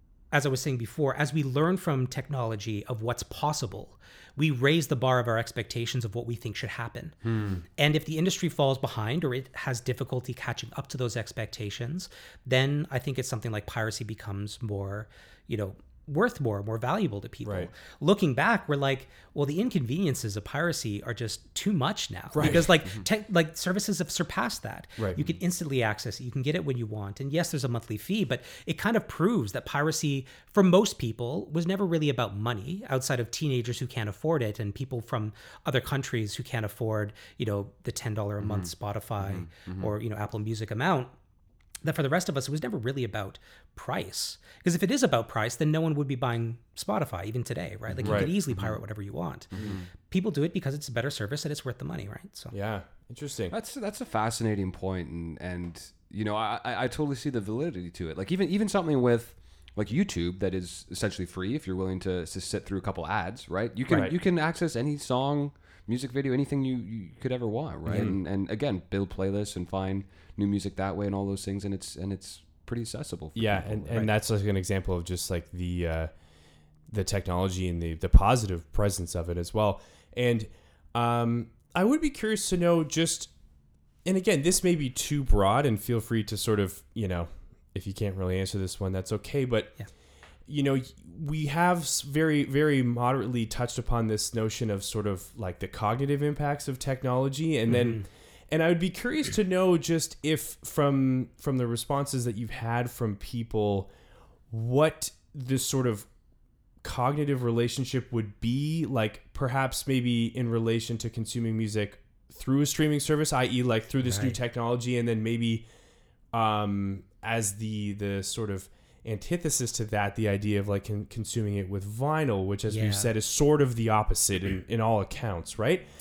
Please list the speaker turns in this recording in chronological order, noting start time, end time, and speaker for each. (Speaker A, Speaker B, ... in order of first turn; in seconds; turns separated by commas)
Speaker A: 0.3-7.2, Speaker B: 7.2-7.6, Speaker A: 7.8-41.1, Speaker C: 22.3-22.7, Speaker B: 38.4-38.7, Speaker B: 39.2-39.9, Speaker A: 41.8-49.5, Speaker B: 47.9-48.8, Speaker C: 48.0-48.3, Speaker B: 49.5-49.9, Speaker A: 50.0-52.5, Speaker C: 52.5-53.5, Speaker B: 53.5-74.1, Speaker C: 67.9-68.2, Speaker C: 73.3-76.1, Speaker C: 76.9-83.3, Speaker C: 84.0-89.8, Speaker C: 90.5-103.9, Speaker A: 97.8-98.0, Speaker C: 104.5-106.1, Speaker C: 106.8-115.7, Speaker A: 114.0-114.4, Speaker C: 116.3-125.8, Speaker A: 122.7-123.1